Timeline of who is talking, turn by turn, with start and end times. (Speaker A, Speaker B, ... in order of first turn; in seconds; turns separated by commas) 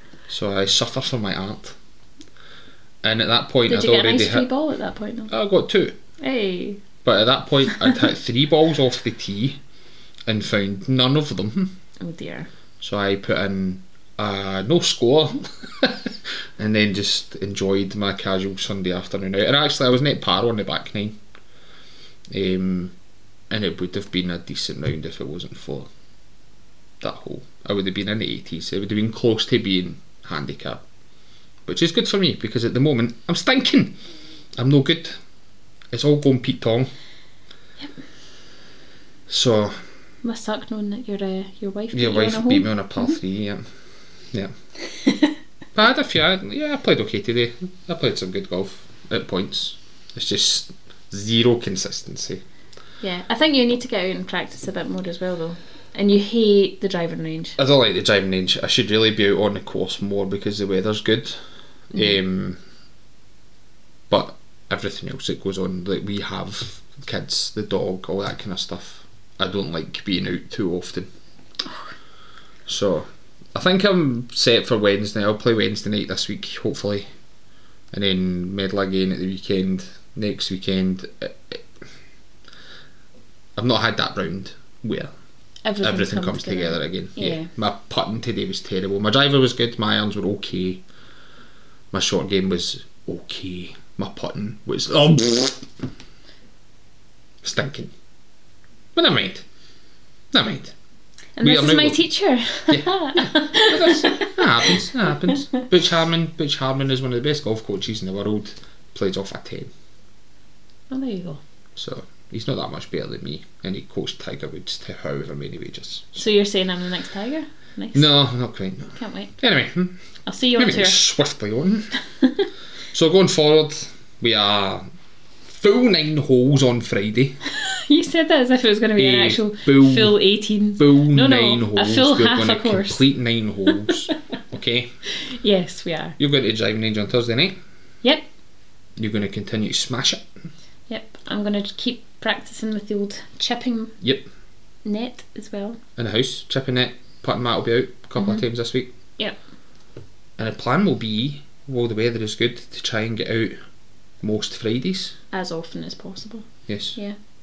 Speaker A: 0.3-1.8, Speaker A: 3.0-4.5, Speaker B: 3.6-5.3, Speaker A: 5.3-6.0, Speaker B: 6.2-6.8, Speaker A: 7.0-9.6, Speaker B: 7.7-8.0, Speaker A: 10.3-11.7, Speaker B: 12.0-12.5, Speaker A: 12.8-21.2, Speaker A: 22.3-22.9, Speaker A: 23.5-25.9, Speaker A: 27.0-30.8, Speaker A: 31.6-34.0, Speaker A: 34.5-35.2, Speaker A: 35.9-36.9, Speaker A: 39.3-39.8, Speaker B: 40.2-43.1, Speaker A: 41.9-43.6, Speaker B: 45.0-45.3, Speaker A: 45.7-52.4, Speaker B: 53.0-57.5, Speaker A: 57.6-62.6, Speaker A: 64.1-71.1, Speaker A: 72.7-77.0, Speaker A: 77.9-81.6, Speaker A: 83.5-85.1, Speaker B: 85.6-87.5, Speaker A: 85.8-90.8, Speaker A: 91.9-95.7, Speaker A: 97.4-97.9, Speaker A: 98.9-99.4, Speaker A: 100.3-100.7, Speaker B: 101.4-105.3, Speaker A: 101.4-102.0, Speaker A: 102.7-109.7, Speaker B: 110.9-111.4, Speaker A: 111.8-116.2, Speaker B: 116.2-118.1, Speaker A: 117.9-120.0, Speaker B: 119.0-119.3, Speaker B: 120.2-121.0, Speaker A: 120.6-121.9, Speaker A: 122.9-124.8, Speaker A: 125.5-127.4, Speaker B: 127.5-133.0, Speaker A: 129.0-130.2, Speaker A: 130.8-134.9, Speaker B: 133.7-133.9, Speaker B: 135.1-136.2, Speaker A: 136.2-137.6, Speaker A: 139.0-140.2, Speaker B: 140.9-144.0, Speaker A: 144.0-144.2, Speaker B: 144.8-145.8, Speaker A: 146.0-148.9, Speaker A: 150.4-153.5, Speaker A: 154.2-155.2, Speaker B: 155.3-157.2, Speaker A: 156.7-157.0